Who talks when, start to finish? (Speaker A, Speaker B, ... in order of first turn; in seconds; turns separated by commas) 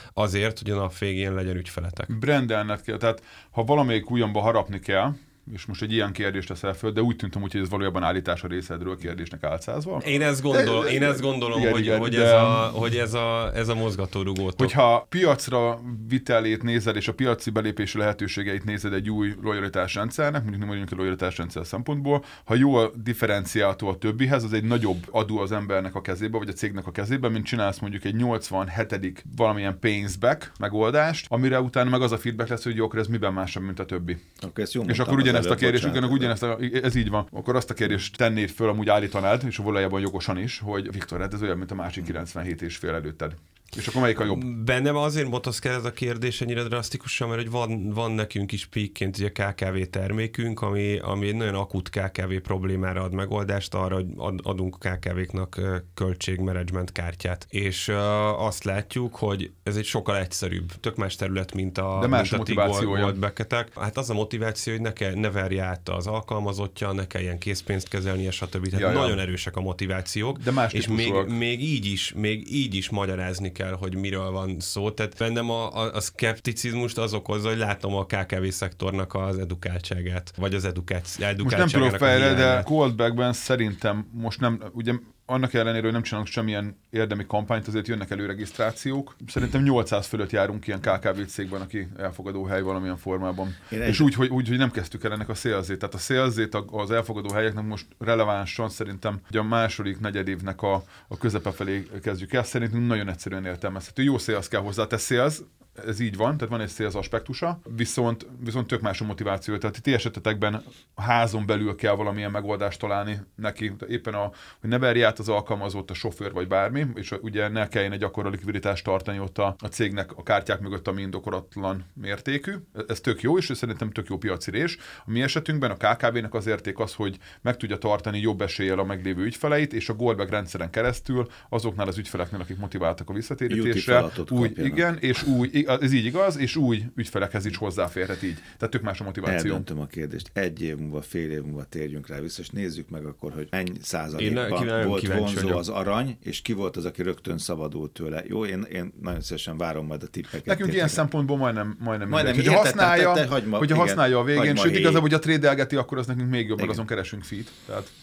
Speaker A: 0.2-2.1, Speaker B: 2.1-12.7, Speaker A: 10.0-14.7, Speaker B: 14.6-34.2, Speaker C: 34.4-36.3, Speaker B: 34.9-44.5, Speaker A: 44.2-82.7, Speaker B: 62.0-63.2, Speaker B: 68.7-69.2, Speaker B: 70.3-71.3, Speaker B: 81.4-139.7, Speaker C: 93.7-94.1, Speaker C: 133.5-134.9, Speaker C: 139.2-151.0, Speaker A: 144.2-145.6, Speaker B: 150.5-157.9, Speaker C: 152.1-155.1